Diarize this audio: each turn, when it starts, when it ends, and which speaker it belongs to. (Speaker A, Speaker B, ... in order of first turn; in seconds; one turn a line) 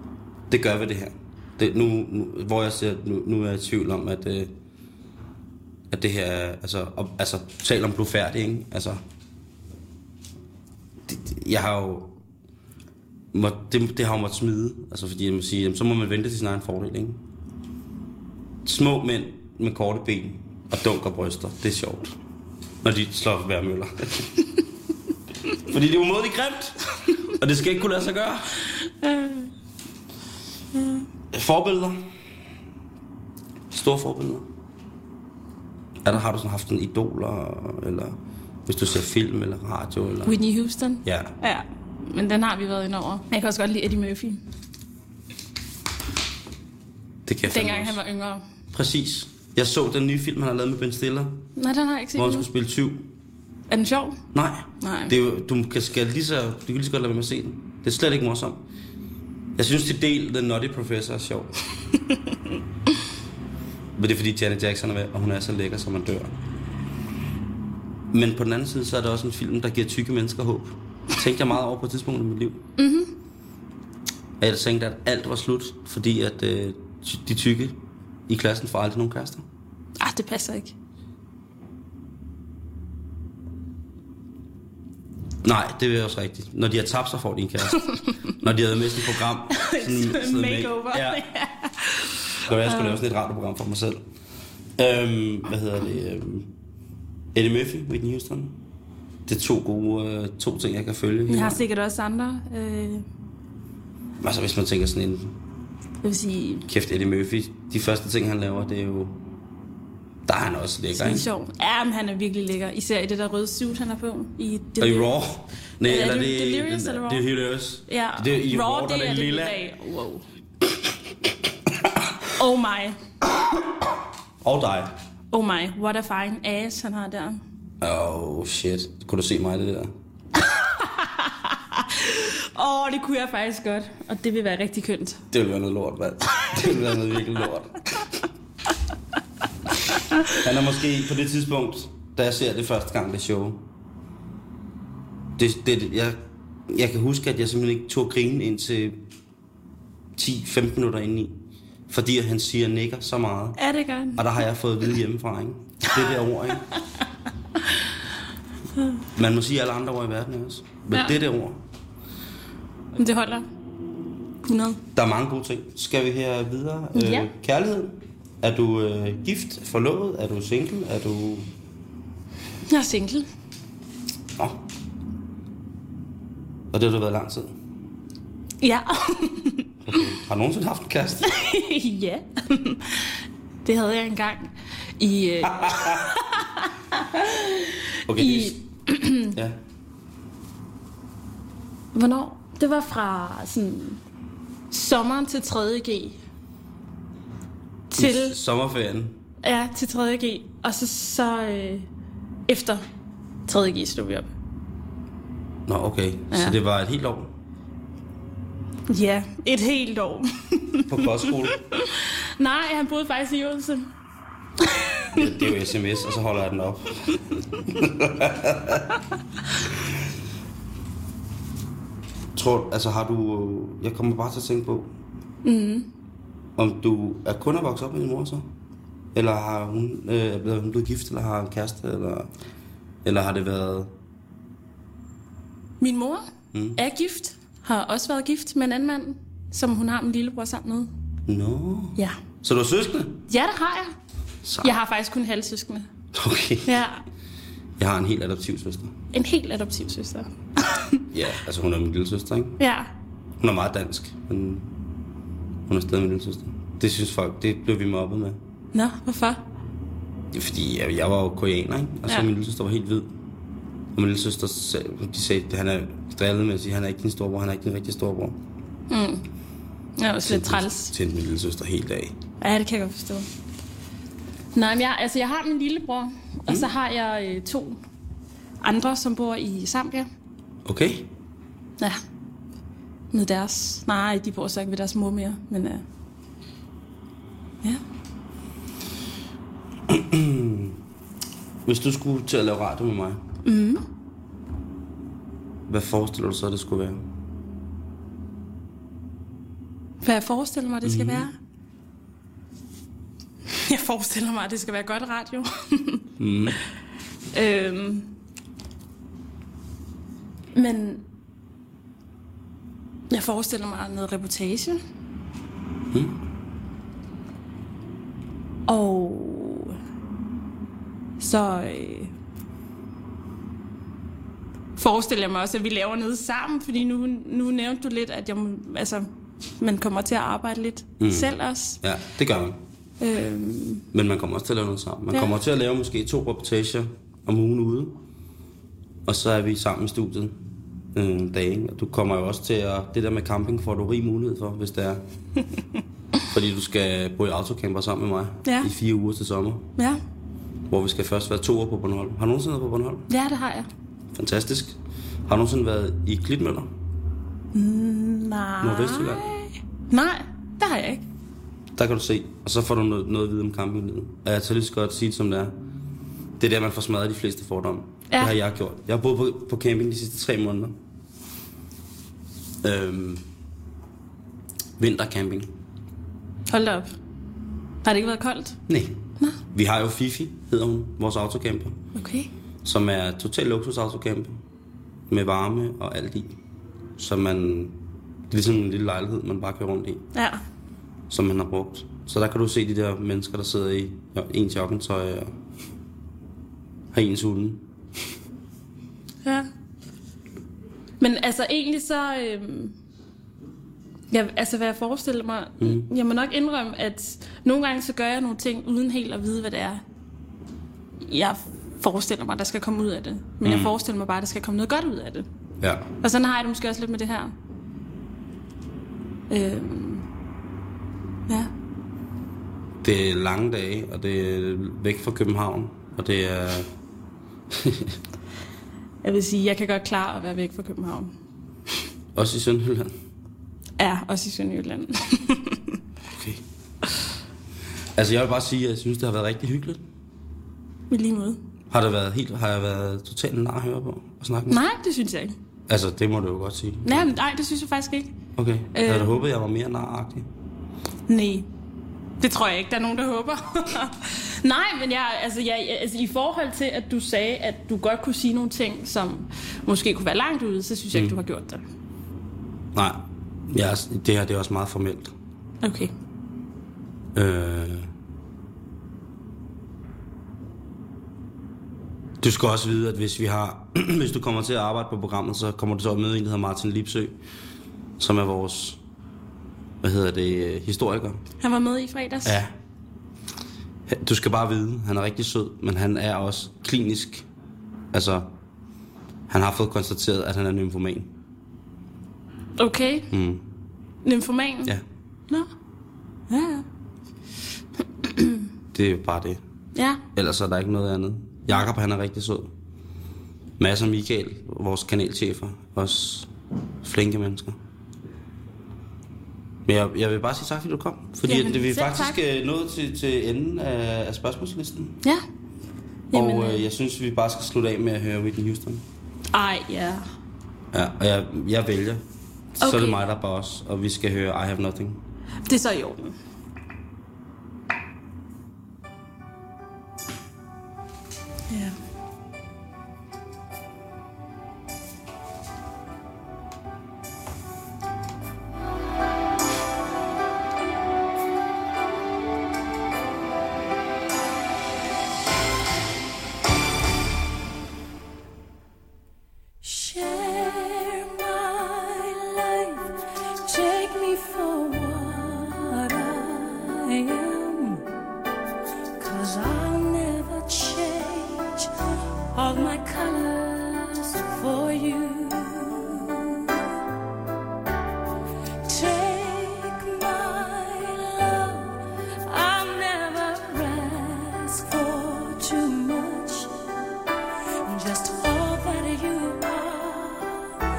Speaker A: 0.5-4.5
Speaker A: 5.9-9.0
Speaker A: 11.1-12.2
Speaker A: 13.3-17.2
Speaker A: 18.6-22.2
Speaker A: 22.8-24.4
Speaker A: 25.6-28.6
Speaker B: 28.9-29.5
Speaker B: 30.8-31.0
Speaker A: 31.3-32.0
Speaker A: 33.7-34.5
Speaker A: 36.0-40.4
Speaker B: 40.2-44.4
Speaker A: 41.0-41.3
Speaker A: 47.3-48.0
Speaker B: 47.5-48.4
Speaker A: 48.7-51.5
Speaker B: 51.6-52.5
Speaker A: 52.2-53.1
Speaker B: 53.7-54.2
Speaker A: 54.3-58.6
Speaker B: 54.8-55.1
Speaker A: 59.6-61.5
Speaker A: 64.0-66.3
Speaker A: 68.1-72.6
Speaker B: 72.8-73.1
Speaker A: 74.4-79.5
Speaker B: 80.0-80.7
Speaker A: 85.4-91.2
Speaker B: 89.5-93.0
Speaker A: 92.5-94.0
Speaker A: 94.8-96.5
Speaker A: 97.3-98.6
Speaker A: 99.3-101.6
Speaker B: 101.3-103.0
Speaker A: 104.2-105.3
Speaker B: 106.0-106.7
Speaker A: 106.7-109.2
Speaker A: 110.3-111.3
Speaker B: 110.9-115.1
Speaker A: 114.8-119.6
Speaker B: 115.8-117.2
Speaker B: 117.9-120.2
Speaker B: 122.4-123.0
Speaker A: 124.4-125.0
Speaker B: 125.3-127.4
Speaker A: 127.8-129.9
Speaker B: 130.5-135.2
Speaker A: 135.3-137.8
Speaker A: 140.3-143.7
Speaker A: 145.4-149.0
Speaker A: 150.2-151.4
Speaker A: 151.9-153.6
Speaker B: 153.6-154.2
Speaker A: 154.2-156.7
Speaker A: 159.2-161.6
Speaker B: 160.9-161.2
Speaker B: 163.0-163.5
Speaker B: 164.4-164.8
Speaker A: 164.9-171.5
Speaker B: 166.9-167.3
Speaker B: 172.7-173.3
Speaker A: 174.4-174.6
Speaker A: 176.7-177.5
Speaker B: 178.6-179.7
Speaker A: 179.8-181.3
Speaker B: 181.2-189.4
Speaker A: 185.4-186.1
Speaker A: 188.1-188.6
Speaker A: 189.3-189.6
Speaker B: 191.9-194.0
Speaker B: 194.7-196.2
Speaker B: 197.9-198.4
Speaker A: 198.0-199.2
Speaker B: 199.4-201.9
Speaker B: 202.5-202.8
Speaker B: 203.5-204.3
Speaker A: 205.7-207.3
Speaker B: 206.3-206.6
Speaker B: 208.9-213.9
Speaker A: 210.9-211.6
Speaker B: 214.6-215.3
Speaker A: 215.1-218.9
Speaker A: 222.3-224.9
Speaker B: 225.4-225.9
Speaker A: 226.6-228.5
Speaker A: 229.1-232.3
Speaker A: 233.0-233.9
Speaker B: 235.8-236.2
Speaker A: 236.5-236.8
Speaker B: 236.8-240.9
Speaker A: 241.3-243.2
Speaker B: 243.3-243.9
Speaker A: 244.4-244.8
Speaker B: 244.6-245.9
Speaker A: 246.1-246.8
Speaker B: 246.6-247.0
Speaker A: 247.8-248.9
Speaker B: 249.1-251.1
Speaker A: 251.1-252.6
Speaker B: 252.6-252.9
Speaker A: 253.4-254.7
Speaker A: 255.7-258.4
Speaker B: 258.7-259.4
Speaker A: 260.3-263.1
Speaker A: 263.9-268.4
Speaker B: 268.9-269.2
Speaker B: 270.0-270.9
Speaker A: 270.2-272.1
Speaker B: 272.4-273.3
Speaker B: 274.5-277.8
Speaker B: 278.6-280.1
Speaker A: 280.6-281.1
Speaker B: 283.1-285.8
Speaker A: 289.9-290.8
Speaker A: 291.6-293.2
Speaker B: 293.4-293.8
Speaker A: 295.7-297.0
Speaker B: 300.0-301.4
Speaker A: 300.8-301.3
Speaker B: 303.5-306.1
Speaker A: 306.2-306.6
Speaker B: 307.3-308.1
Speaker B: 310.5-311.1
Speaker B: 313.1-314.8
Speaker A: 315.9-316.2
Speaker B: 318.7-319.8
Speaker B: 321.2-322.1
Speaker B: 324.8-329.1
Speaker B: 329.6-331.8
Speaker A: 331.0-332.6
Speaker B: 333.0-333.9
Speaker A: 333.9-338.0
Speaker B: 335.1-335.4
Speaker A: 339.1-345.0
Speaker A: 346.3-349.7
Speaker B: 348.4-348.7
Speaker A: 350.7-353.1
Speaker B: 353.1-353.7
Speaker A: 354.1-356.7
Speaker B: 357.5-361.0
Speaker A: 358.6-359.2
Speaker A: 361.8-365.6
Speaker A: 366.4-370.8
Speaker A: 372.6-373.2
Speaker A: 374.8-375.5
Speaker B: 376.5-376.9
Speaker B: 377.8-378.6
Speaker A: 378.7-381.8
Speaker B: 381.9-382.3
Speaker A: 382.6-384.4
Speaker A: 385.1-386.4
Speaker A: 387.0-390.0
Speaker B: 390.1-390.4
Speaker A: 391.1-395.3
Speaker A: 396.9-397.6
Speaker B: 401.0-402.8
Speaker B: 404.1-409.8
Speaker A: 405.6-405.9
Speaker B: 411.1-415.3
Speaker A: 413.4-413.8
Speaker A: 415.6-415.9
Speaker B: 416.0-417.3
Speaker B: 419.3-420.1
Speaker A: 422.8-426.7
Speaker A: 427.5-428.0
Speaker B: 429.0-431.1
Speaker A: 432.1-432.9
Speaker B: 433.8-435.8
Speaker A: 436.1-436.4
Speaker A: 437.9-439.8
Speaker B: 440.9-441.4
Speaker A: 441.7-444.6
Speaker B: 444.5-445.4
Speaker A: 445.7-447.1
Speaker B: 446.9-448.1
Speaker A: 448.4-450.3
Speaker B: 448.7-449.2
Speaker B: 451.1-451.5
Speaker B: 452.2-461.6
Speaker A: 462.8-465.1
Speaker B: 465.6-465.9
Speaker A: 467.1-467.9
Speaker A: 472.2-477.2
Speaker A: 478.0-478.8
Speaker A: 479.8-481.2
Speaker B: 481.4-482.4
Speaker A: 482.2-482.5
Speaker A: 483.9-487.3
Speaker A: 487.9-488.3
Speaker A: 489.3-491.1
Speaker B: 492.6-493.1
Speaker A: 493.1-493.5
Speaker B: 494.0-494.8
Speaker B: 496.3-496.7
Speaker B: 498.1-498.4
Speaker A: 498.7-499.4
Speaker B: 499.8-500.0
Speaker A: 500.1-502.5
Speaker A: 503.6-506.3
Speaker A: 506.8-507.6
Speaker A: 509.7-515.0
Speaker B: 511.3-512.2
Speaker B: 516.1-516.7
Speaker A: 516.1-518.8
Speaker B: 519.3-520.0
Speaker A: 520.7-522.0
Speaker A: 522.6-525.0
Speaker B: 522.6-523.0
Speaker B: 525.5-526.1
Speaker B: 531.5-531.8
Speaker C: 549.6-557.9
Speaker C: 559.0-566.6
Speaker C: 568.6-576.9
Speaker C: 577.6-580.6